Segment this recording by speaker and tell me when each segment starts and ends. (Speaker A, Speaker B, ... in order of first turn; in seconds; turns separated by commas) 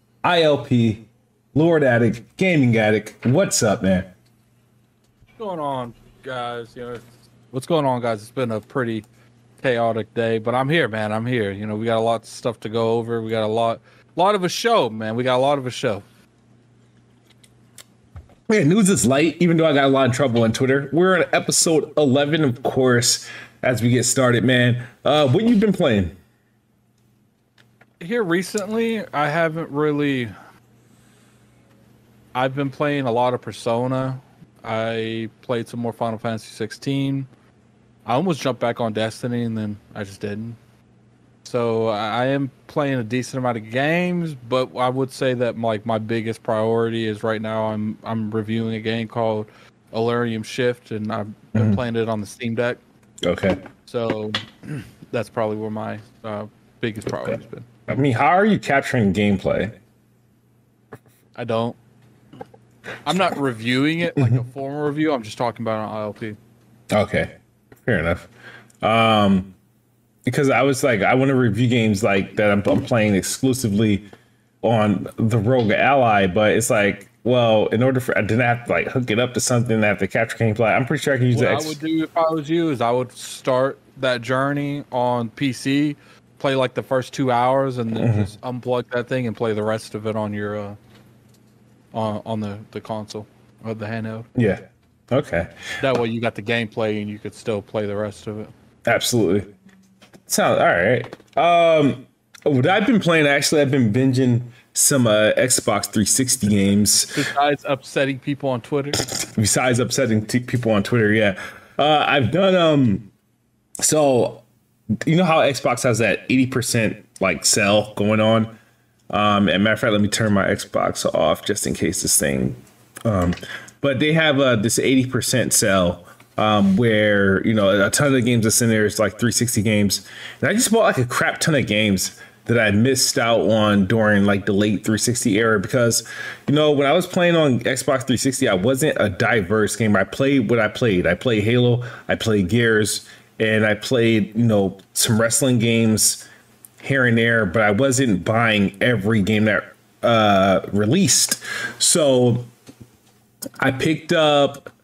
Speaker A: 0.2-4.1, Speaker B: 5.4-9.0, Speaker B: 9.6-16.1, Speaker A: 18.5-26.1, Speaker B: 28.0-30.3, Speaker B: 32.3-37.3, Speaker B: 38.0-40.6, Speaker B: 41.4-52.8, Speaker A: 51.5-51.8, Speaker A: 53.2-53.6, Speaker B: 53.9-57.6, Speaker A: 57.9-59.8, Speaker B: 61.4-61.8, Speaker B: 63.0-66.4, Speaker A: 66.9-67.3, Speaker A: 67.8-68.3, Speaker A: 68.8-69.5, Speaker A: 70.2-74.0, Speaker A: 74.6-81.8, Speaker B: 81.3-90.8, Speaker A: 88.0-88.3, Speaker B: 91.9-94.3, Speaker A: 94.3-95.6, Speaker B: 95.8-98.5, Speaker A: 98.8-99.5, Speaker A: 100.3-107.2, Speaker B: 107.1-109.0, Speaker A: 109.0-113.1, Speaker A: 113.8-114.4, Speaker A: 115.0-118.5, Speaker A: 119.1-146.2, Speaker A: 146.8-152.5, Speaker A: 153.6-154.7